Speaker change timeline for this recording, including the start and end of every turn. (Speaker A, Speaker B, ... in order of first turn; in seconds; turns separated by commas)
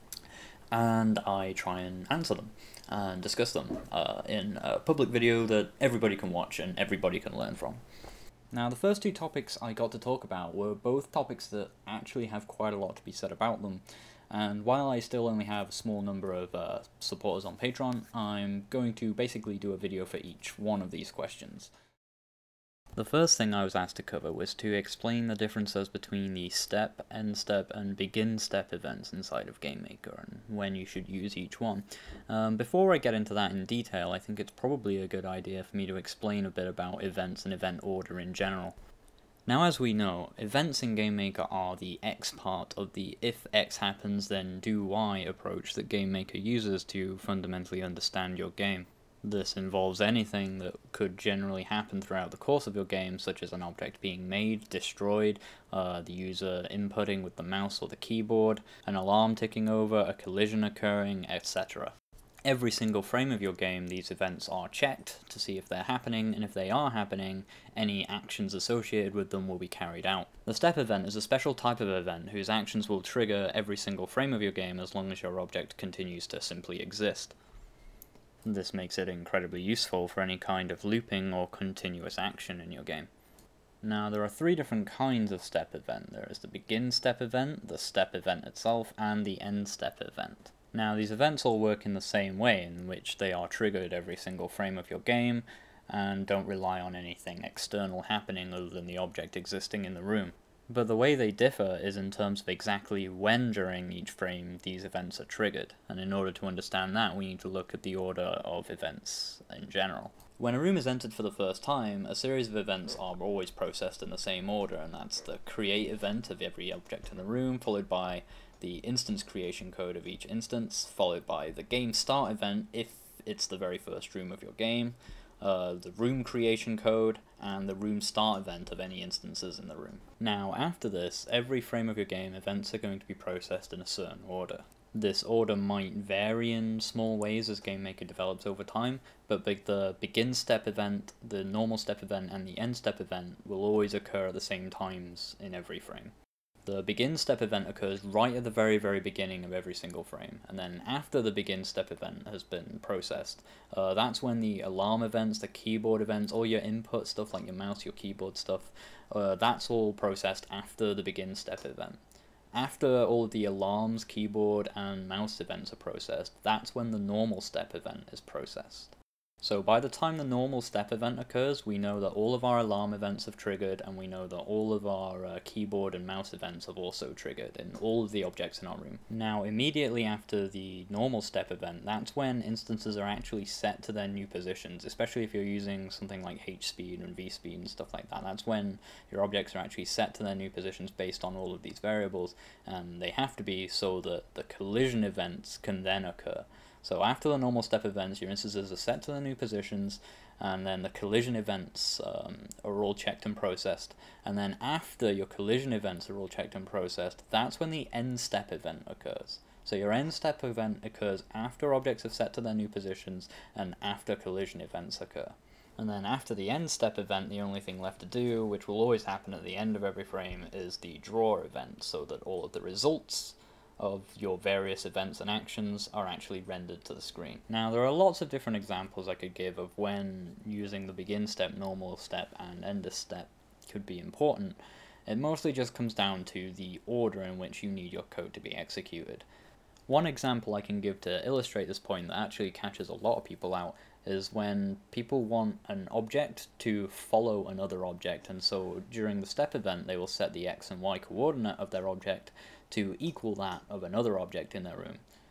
Speaker A: 0.7-7.8, Speaker A: 8.5-21.7, Speaker A: 22.9-38.8, Speaker A: 39.5-61.9, Speaker A: 62.5-77.3, Speaker A: 78.5-83.1, Speaker A: 83.8-146.1, Speaker A: 146.7-162.0, Speaker A: 162.5-239.2, Speaker A: 239.9-255.0